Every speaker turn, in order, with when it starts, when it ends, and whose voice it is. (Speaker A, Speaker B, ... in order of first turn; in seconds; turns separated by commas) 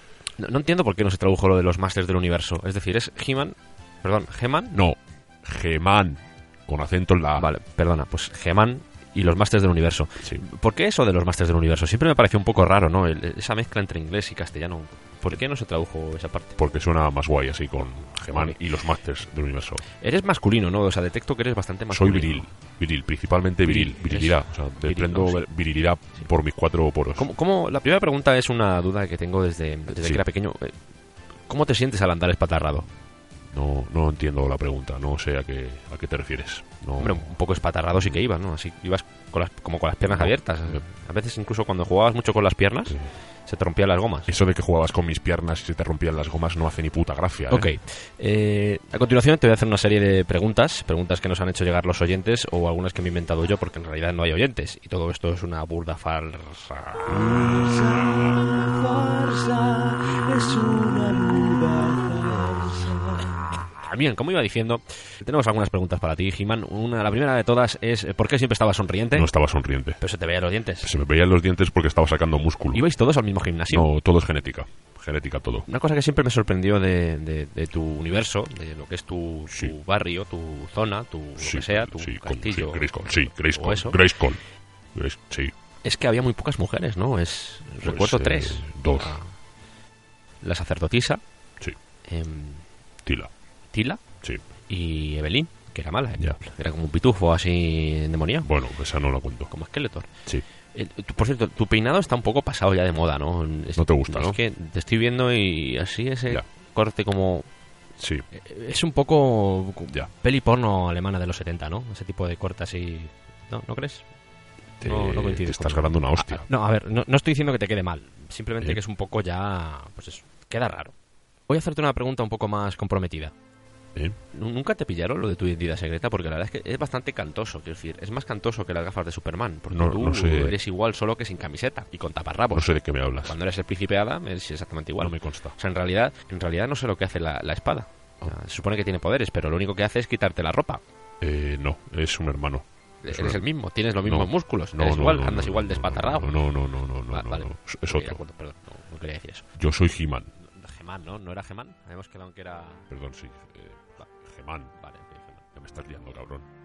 Speaker A: 0.4-4.7, Speaker B: 4.7-7.5, Speaker A: 7.4-16.5, Speaker B: 16.6-19.8, Speaker A: 18.3-18.6, Speaker A: 20.0-22.5, Speaker B: 21.9-27.3, Speaker A: 23.6-25.4, Speaker A: 27.2-30.8, Speaker B: 29.9-30.2, Speaker A: 31.5-32.9, Speaker B: 33.5-37.2, Speaker A: 37.0-44.3, Speaker B: 40.1-40.8, Speaker B: 44.3-47.7, Speaker A: 47.5-69.3, Speaker B: 69.1-70.0, Speaker A: 70.0-70.9, Speaker B: 70.8-72.8, Speaker A: 72.7-73.9, Speaker B: 73.7-75.7, Speaker A: 75.7-84.0, Speaker B: 81.4-84.4, Speaker B: 84.9-85.5, Speaker A: 85.8-89.3, Speaker B: 87.8-89.2, Speaker A: 90.4-91.2, Speaker A: 92.0-92.6, Speaker B: 93.0-93.3, Speaker A: 93.7-94.0, Speaker A: 94.6-98.5, Speaker B: 98.4-99.5, Speaker A: 99.5-100.1, Speaker A: 100.7-107.5, Speaker B: 103.8-104.4, Speaker B: 108.0-108.2, Speaker A: 108.3-114.1, Speaker B: 114.8-116.4, Speaker A: 114.8-120.9, Speaker A: 121.5-123.3, Speaker A: 124.3-132.7, Speaker B: 129.7-130.6, Speaker B: 132.5-133.3, Speaker A: 133.2-140.8, Speaker B: 135.0-135.6, Speaker B: 141.2-143.4, Speaker A: 143.0-146.3, Speaker B: 144.0-148.2, Speaker A: 147.1-149.4, Speaker B: 149.6-150.3, Speaker A: 150.5-152.8, Speaker B: 152.9-154.8, Speaker A: 154.8-155.6, Speaker B: 155.6-156.4